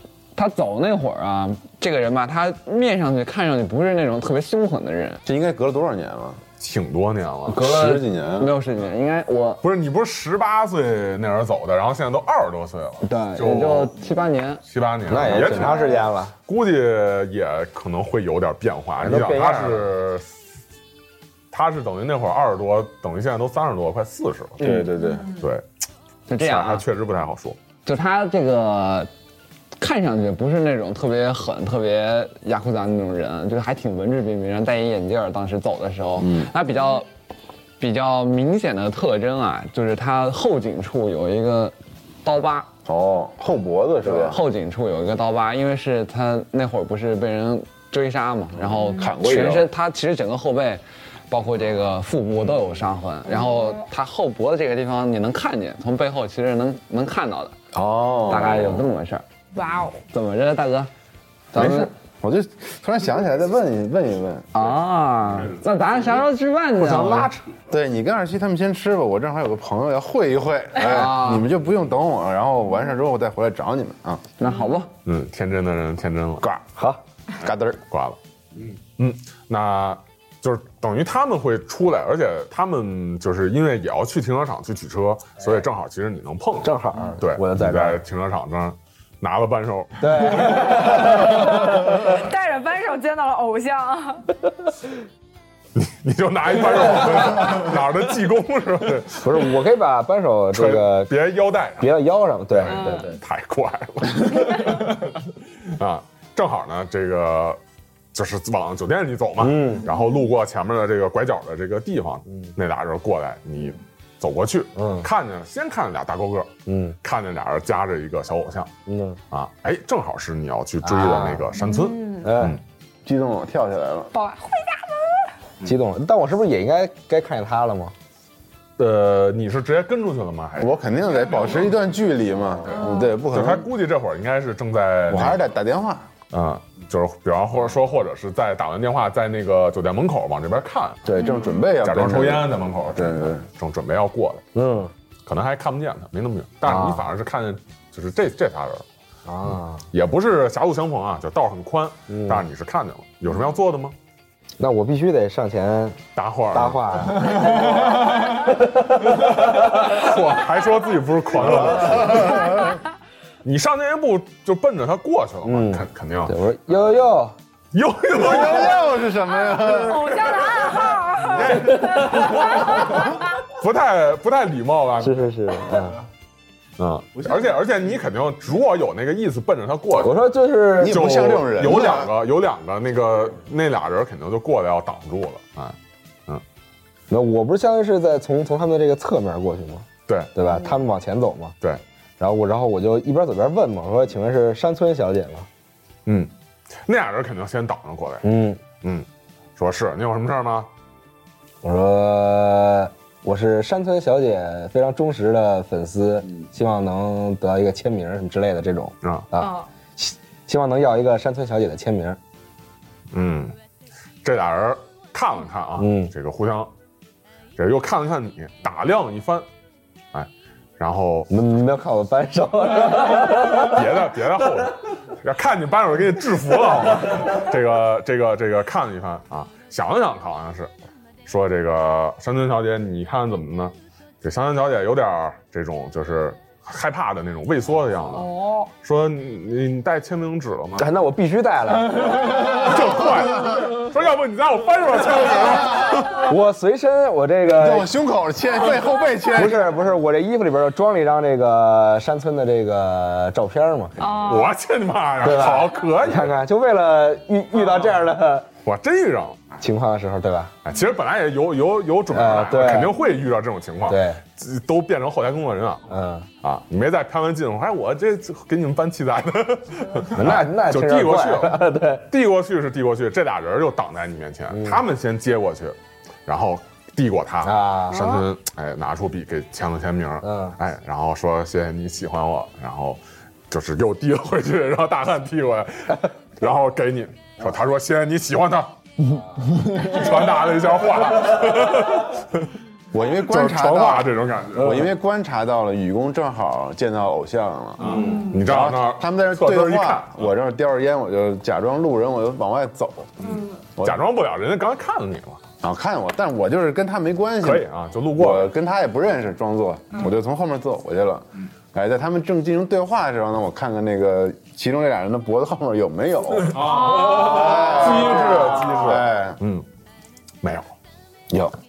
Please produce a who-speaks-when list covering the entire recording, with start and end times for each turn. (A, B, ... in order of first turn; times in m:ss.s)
0:00.4-0:05.2 A
0:05.3-0:06.4 B
0:06.6-0:07.7 C
0:07.5-0:09.6 A
0:07.5-0:08.5 B
0:09.6-0:13.9 C
0:13.0-0:14.6 A
0:14.6-0:15.9 C
0:15.1-0:16.3 D
0:15.7-0:16.0 E
0:16.5-0:20.3 C
0:19.0-0:19.9 D
0:21.5-0:25.6 C
0:24.6-0:25.4 B
0:26.3-0:26.8 A
0:26.4-0:27.6 C
0:27.8-0:29.1 A
0:29.8-0:37.1 A
0:36.2-0:36.5 B
0:37.8-0:42.7 A
0:42.9-0:44.4 B
0:44.0-0:57.6 A
0:48.6-0:49.7 B
0:48.8-0:49.1 E
0:53.3-0:53.8 E
0:57.7-0:58.8 B
0:58.3-0:59.2 A
0:59.5-1:00.0 E
1:00.1-1:00.9 A
1:01.5-1:01.9 A
1:01.5-1:04.5 B
1:04.5-1:07.3 A
1:06.8-1:07.4 C
1:07.7-1:14.2 B
1:10.8-1:11.5 A
1:14.4-1:14.9 A
1:15.0-1:16.5 C
1:16.8-1:17.0 D
1:17.4-1:17.8 B
1:17.9-1:18.2 C
1:19.0-1:31.0 C
1:26.6-1:28.0 D
1:30.0-1:32.0 D
1:31.3-1:34.3 E
1:35.8-1:39.5 C
1:39.2-1:41.1 D
1:40.5-1:41.9 C
1:41.8-1:43.1 D
1:42.6-1:47.6 C
1:42.7-1:43.1 E
1:48.1-1:58.7 C
1:49.4-1:49.9 D
1:54.8-1:55.1 D
1:56.7-1:57.0 D
1:58.9-1:59.2 D
1:59.3-2:02.6 C
2:00.8-2:01.5 D
2:01.6-2:02.3 E
2:02.2-2:02.6 D
2:03.0-2:04.1 B
2:04.1-2:05.3 E
2:05.6-2:07.9 D
2:08.8-2:10.7 C
2:10.6-2:13.7 B
2:12.7-2:13.1 E
2:13.3-2:15.4 C
2:15.1-2:16.1 B
2:16.3-2:21.1 C
2:21.0-2:23.4 B
2:21.2-2:21.5 E
2:21.8-2:24.4 C
2:24.6-2:24.9 D
2:25.3-2:28.8 C
2:26.6-2:27.1 D
2:29.3-2:29.9 D
2:29.5-2:34.0 C
2:32.1-2:32.5 D
2:34.6-2:36.0 D
2:36.2-2:37.9 C
2:36.5-2:38.8 D
2:39.2-2:42.6 C
2:41.8-2:42.7 B
2:43.4-2:46.4 C
2:45.4-2:47.4 D
2:47.7-2:49.0 C
2:48.2-2:50.3 B
2:49.3-2:53.4 E
2:51.3-2:55.3 C
2:55.0-2:56.0 D
2:56.8-3:00.2 C
3:00.0-3:01.1 D
3:00.8-3:02.1 B
3:00.8-3:06.4 C
3:07.1-3:11.6 D
3:10.1-3:10.3 C
3:12.2-3:15.5 D
3:16.1-3:16.3 C
3:16.8-3:18.3 C
3:18.2-3:18.6 D
3:19.6-3:20.7 C
3:21.6-3:32.2 D
3:29.0-3:29.3 C
3:29.4-3:29.7 E
3:33.1-3:33.6 C
3:34.2-3:36.7 C
3:35.8-3:36.1 D
3:37.6-3:39.5 C
3:40.1-3:41.3 C
3:41.3-3:43.9 D
3:43.4-3:50.7 C
3:51.3-4:00.9 C
3:58.2-3:58.7 E
4:00.8-4:02.7 D
4:02.2-4:06.3 C
4:06.2-4:07.9 D
4:07.5-4:09.7 B
4:09.3-4:14.0 D
4:14.0-4:14.5 E
4:14.2-4:16.4 C
4:15.2-4:18.5 D
4:18.6-4:19.6 C
4:19.6-4:20.5 D
4:20.6-4:25.8 C
4:22.1-4:23.0 D
4:23.9-4:24.2 D
4:25.9-4:26.3 D
4:26.4-4:48.8 C
4:30.1-4:32.1 D
4:34.5-4:34.8 D
4:37.4-4:38.2 D
4:40.2-4:40.6 D
4:49.5-4:52.5 C
4:49.5-4:50.0 D
4:52.9-5:04.0 B
4:53.0-4:54.9 C
4:57.8-5:00.3 C
5:03.2-5:05.4 C
5:05.6-5:19.4 B
5:07.4-5:08.5 C
5:16.4-5:19.7 C
5:20.4-5:20.7 C